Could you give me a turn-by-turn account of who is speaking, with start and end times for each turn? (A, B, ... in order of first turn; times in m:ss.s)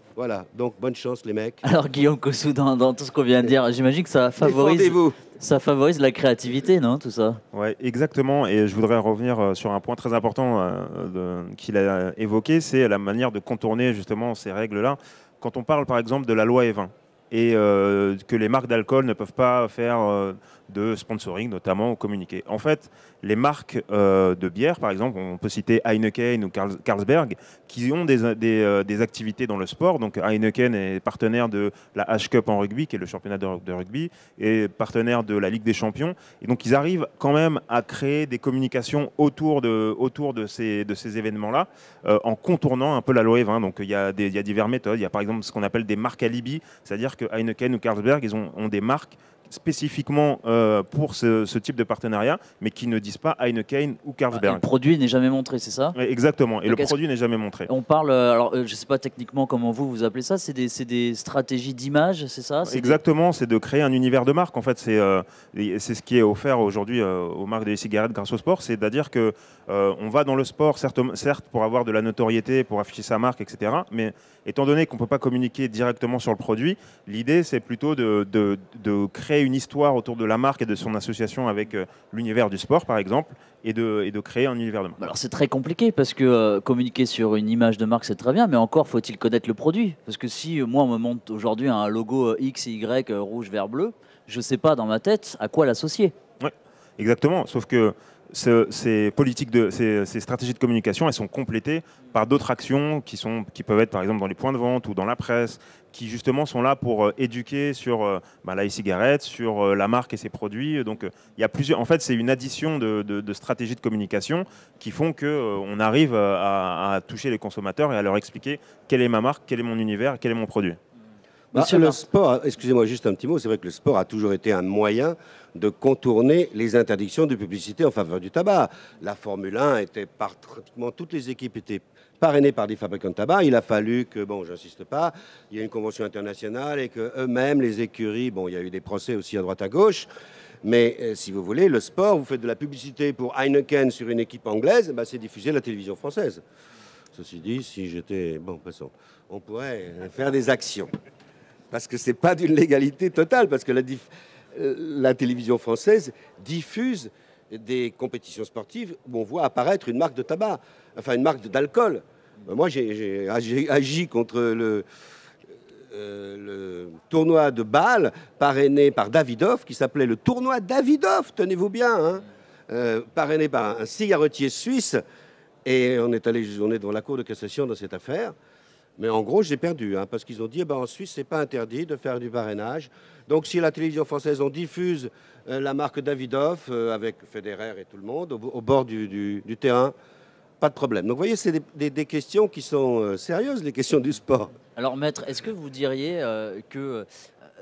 0:00.2-0:01.6 A
0:01.6-0:07.4 B
0:04.4-0:05.2 A
0:07.5-0:54.6 C
0:54.3-0:56.0 B
0:56.0-0:57.7 C
0:56.7-0:57.0 B
0:57.7-1:03.0 B
1:02.7-1:25.0 C
1:25.0-1:36.1 B
1:36.4-2:00.8 C
2:01.5-2:02.0 B
2:01.5-2:20.1 A
2:20.6-2:26.4 A
2:27.1-2:30.9 A
2:31.7-2:44.8 A
2:45.9-2:55.0 A
2:55.6-2:58.4 A
2:59.0-3:09.9 A
3:10.6-3:14.6 A
3:14.8-3:17.1 B